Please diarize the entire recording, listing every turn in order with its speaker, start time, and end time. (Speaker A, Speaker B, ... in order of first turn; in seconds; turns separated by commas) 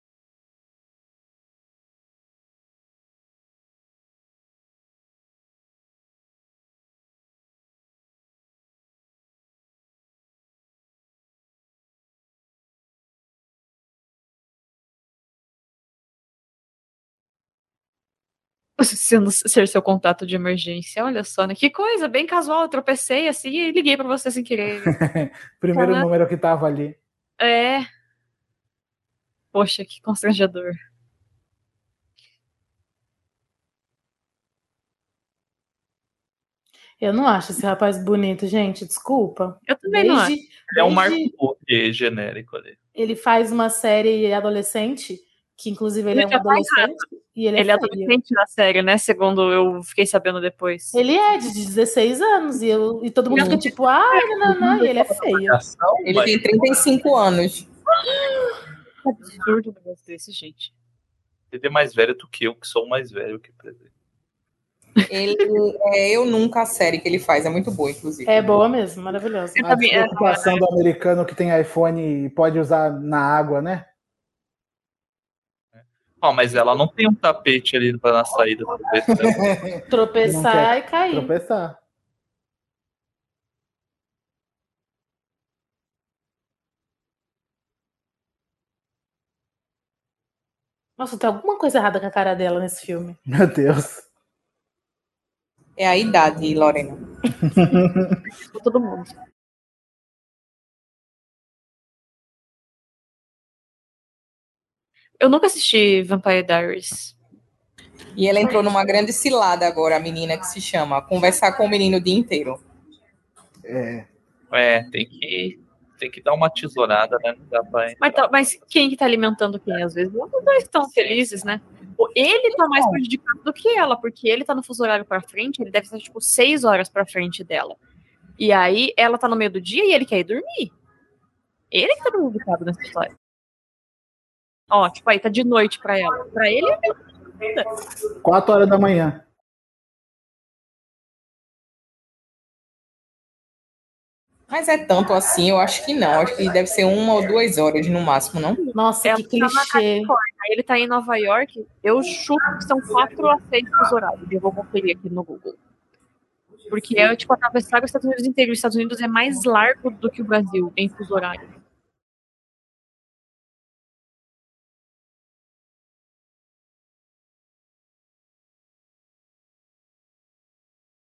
Speaker A: 18.8-24.9, Speaker B: 24.8-27.0, Speaker A: 25.7-26.1, Speaker A: 27.4-27.9, Speaker A: 29.5-30.8, Speaker C: 37.0-41.3, Speaker A: 39.6-40.3, Speaker D: 40.7-42.8, Speaker C: 42.9-48.1, Speaker A: 46.1-47.0, Speaker A: 47.5-51.0, Speaker C: 50.9-55.5, Speaker A: 53.3-55.0, Speaker D: 55.4-56.4, Speaker E: 56.0-57.7, Speaker A: 59.0-60.7, Speaker D: 61.5-63.9, Speaker A: 65.0-65.4, Speaker E: 65.1-68.5, Speaker C: 68.2-70.1, Speaker A: 69.5-70.6, Speaker B: 69.9-73.9, Speaker D: 75.8-79.6, Speaker B: 79.1-81.8, Speaker C: 79.9-81.3, Speaker C: 91.0-93.2, Speaker B: 93.3-94.0, Speaker E: 95.8-97.0, Speaker B: 97.5-98.1, Speaker A: 98.4-99.1, Speaker A: 105.2-107.1, Speaker E: 108.2-112.6, Speaker B: 113.6-114.1, Speaker D: 114.5-118.6, Speaker A: 118.0-127.8, Speaker D: 120.9-121.2, Speaker A: 128.4-130.7, Speaker A: 131.7-133.1, Speaker A: 134.7-136.9, Speaker B: 138.2-139.2, Speaker E: 144.5-148.6, Speaker C: 148.7-150.1, Speaker A: 149.0-155.6, Speaker A: 156.7-161.5